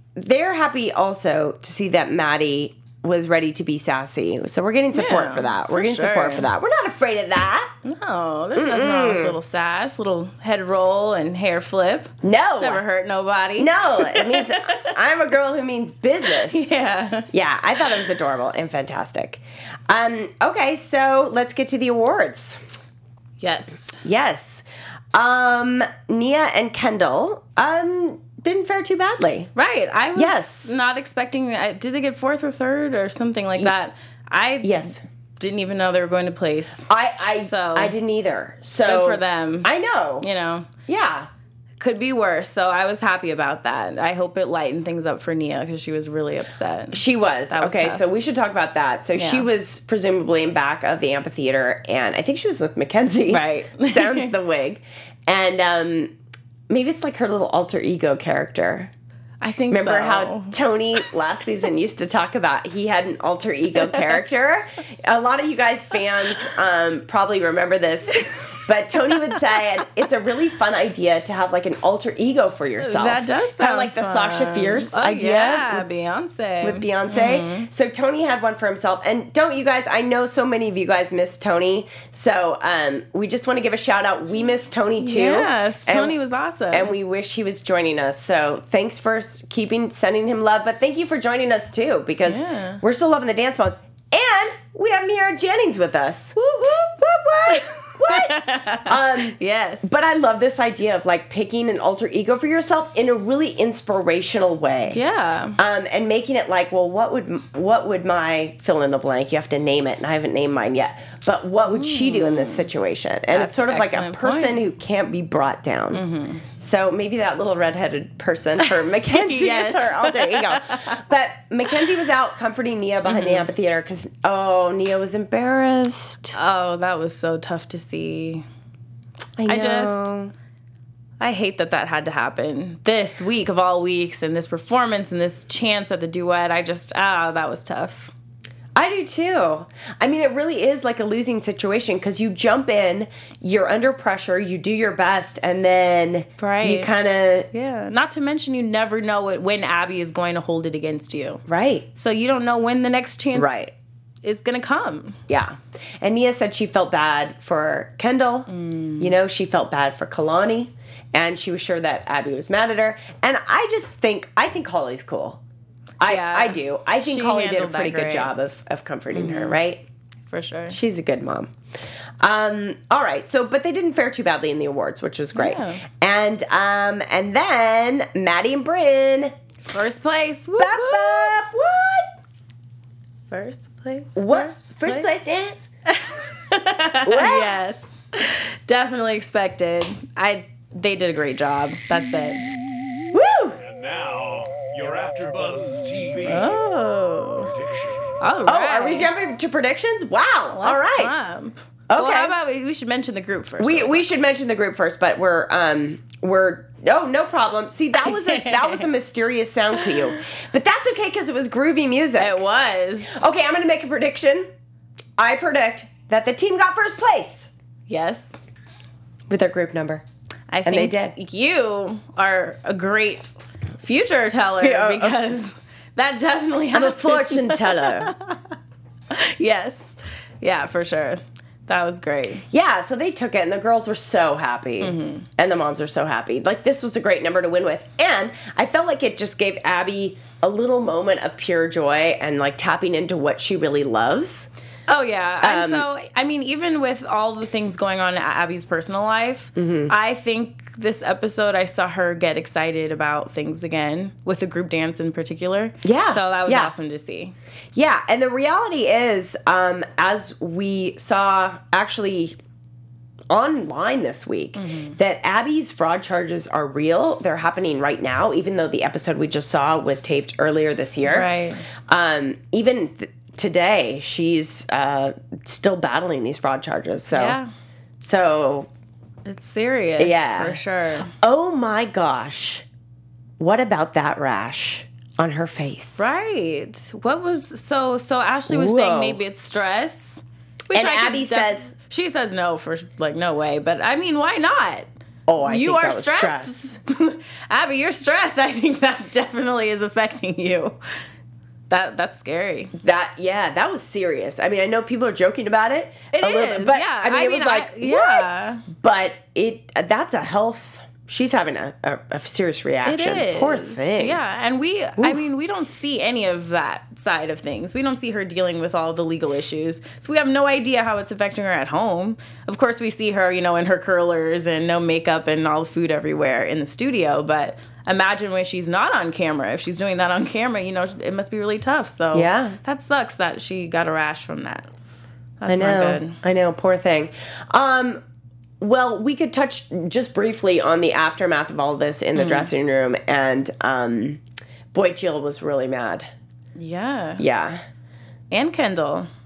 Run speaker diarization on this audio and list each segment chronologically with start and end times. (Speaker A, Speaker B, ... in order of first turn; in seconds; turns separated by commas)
Speaker A: 0.1-7.7, Speaker B: 4.9-6.5, Speaker B: 7.8-14.9, Speaker A: 8.6-9.4, Speaker A: 12.2-12.8, Speaker A: 13.6-16.7, Speaker B: 16.3-17.3, Speaker A: 17.3-22.6, Speaker B: 23.4-24.0, Speaker A: 24.0-29.5, Speaker B: 29.6-37.9, Speaker A: 30.1-30.7, Speaker A: 34.6-35.0, Speaker A: 36.9-40.2, Speaker B: 38.8-40.7, Speaker A: 40.9-41.3, Speaker B: 41.8-48.0, Speaker A: 46.9-56.1, Speaker B: 49.1-49.5, Speaker B: 53.3-54.3, Speaker A: 56.7-58.9, Speaker B: 59.4-60.6, Speaker A: 59.7-75.8, Speaker B: 72.8-77.7, Speaker A: 76.6-86.2, Speaker B: 85.0-86.9, Speaker A: 86.7-105.0, Speaker B: 92.3-92.8, Speaker B: 97.5-99.9, Speaker B: 104.9-105.6, Speaker A: 105.6-126.3, Speaker B: 111.6-112.7, Speaker B: 113.3-114.6, Speaker B: 115.9-116.4, Speaker B: 118.7-121.0, Speaker B: 123.0-123.5, Speaker B: 126.3-128.4, Speaker A: 129.4-130.3, Speaker B: 129.4-130.1, Speaker B: 131.2-138.1, Speaker A: 138.7-147.5, Speaker B: 146.4-146.9, Speaker B: 147.5-151.4, Speaker A: 151.5-151.9, Speaker B: 151.9-153.6, Speaker A: 153.3-153.7, Speaker B: 154.2-155.2, Speaker A: 155.3-165.4, Speaker B: 158.5-159.1, Speaker A: 166.0-169.8, Speaker B: 166.0-168.3, Speaker B: 169.1-169.6, Speaker B: 170.3-170.8, Speaker A: 170.7-171.5, Speaker A: 172.2-179.3, Speaker B: 175.3-175.8, Speaker B: 179.7-181.4, Speaker A: 180.6-182.1, Speaker B: 183.3-185.1, Speaker A: 184.2-185.7, Speaker B: 185.9-192.4, Speaker A: 187.0-187.6, Speaker A: 193.1-193.6, Speaker C: 193.6-196.6, Speaker B: 196.2-197.5, Speaker C: 197.5-198.2, Speaker B: 198.2-199.1, Speaker A: 198.4-201.2, Speaker B: 200.5-204.0, Speaker A: 201.9-202.3, Speaker A: 203.6-212.4, Speaker B: 208.0-208.8, Speaker B: 209.8-210.1, Speaker B: 212.2-213.2, Speaker A: 213.1-214.5, Speaker A: 215.2-217.5, Speaker B: 217.9-218.3, Speaker A: 219.3-220.0, Speaker B: 220.5-228.4, Speaker A: 220.6-221.1, Speaker A: 224.6-225.2, Speaker A: 226.7-228.1, Speaker B: 229.1-232.4, Speaker A: 232.5-244.5, Speaker B: 234.8-235.2, Speaker B: 244.9-257.3, Speaker A: 245.4-245.9, Speaker A: 249.6-249.9, Speaker A: 255.8-256.7, Speaker A: 257.7-262.4, Speaker A: 263.3-271.3, Speaker B: 264.6-265.0, Speaker B: 271.0-271.6, Speaker A: 271.9-277.4, Speaker B: 277.1-277.5, Speaker A: 278.0-278.7, Speaker B: 279.2-281.1, Speaker A: 280.0-280.6, Speaker A: 281.2-282.6, Speaker A: 283.4-286.1, Speaker B: 286.0-294.9, Speaker A: 288.5-289.2, Speaker A: 290.7-291.7, Speaker A: 295.3-296.8, Speaker B: 295.4-300.8, Speaker B: 301.7-302.7, Speaker A: 302.8-314.2, Speaker B: 306.1-308.6, Speaker B: 312.8-334.7, Speaker A: 332.1-332.6, Speaker B: 335.4-336.2, Speaker A: 335.5-338.0, Speaker A: 338.6-344.2, Speaker B: 342.1-342.5, Speaker A: 344.7-346.1, Speaker B: 346.6-347.2, Speaker A: 347.2-347.6, Speaker B: 348.3-349.1